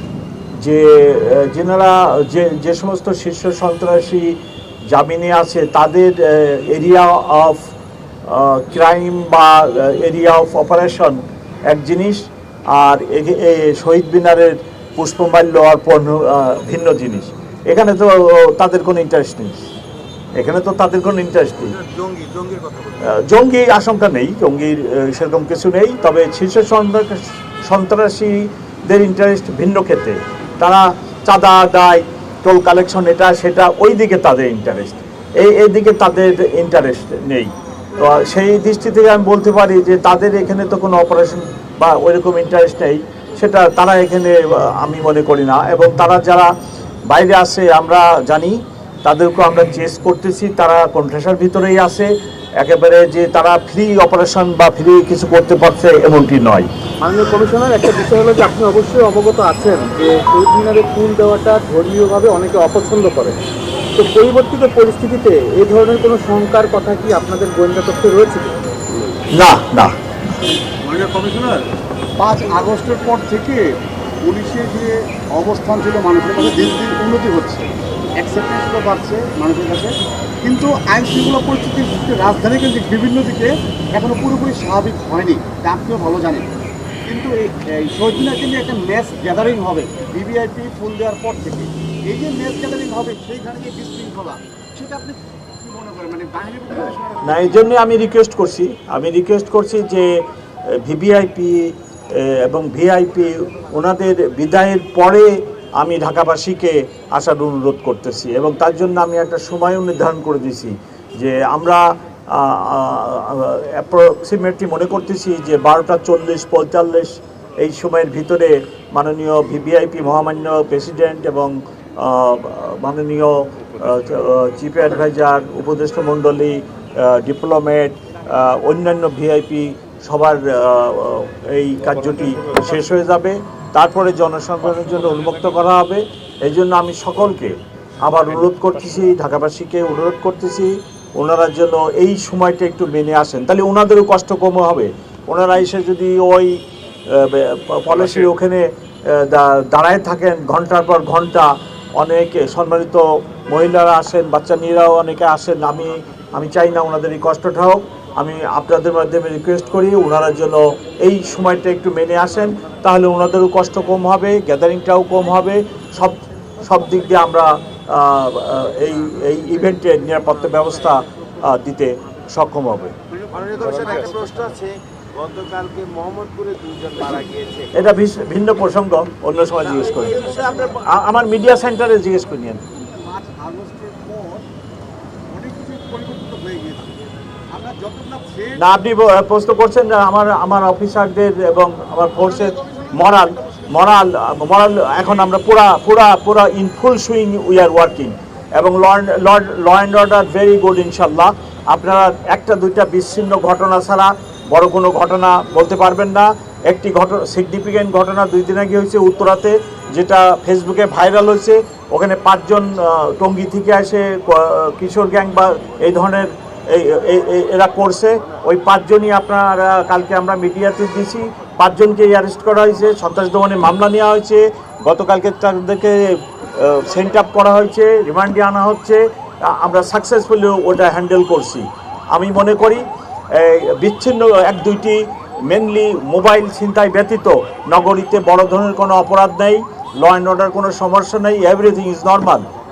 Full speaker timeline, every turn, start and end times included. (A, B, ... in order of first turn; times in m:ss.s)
0:00.6-0:04.4 A
0:04.9-0:07.7 A
0:08.2-0:19.6 A
0:20.3-0:21.8 A
0:21.6-0:23.0 B
0:23.0-0:46.5 A
0:47.1-0:56.7 A
0:57.0-1:03.4 B
1:04.0-1:08.5 B
1:09.3-1:09.9 A
1:10.8-1:11.6 C
1:12.2-1:13.6 C
1:14.2-1:26.5 C
1:27.1-1:37.6 C
1:37.2-2:52.9 A
2:53.1-2:54.5 C
2:53.3-2:57.7 D
2:57.7-3:00.3 A
2:59.6-3:01.0 D
2:59.9-3:00.8 C
3:00.8-3:02.6 A
3:02.7-3:04.4 C
3:05.3-3:07.0 C
3:07.5-3:08.6 C
3:08.6-4:02.4 A
3:12.3-3:13.7 C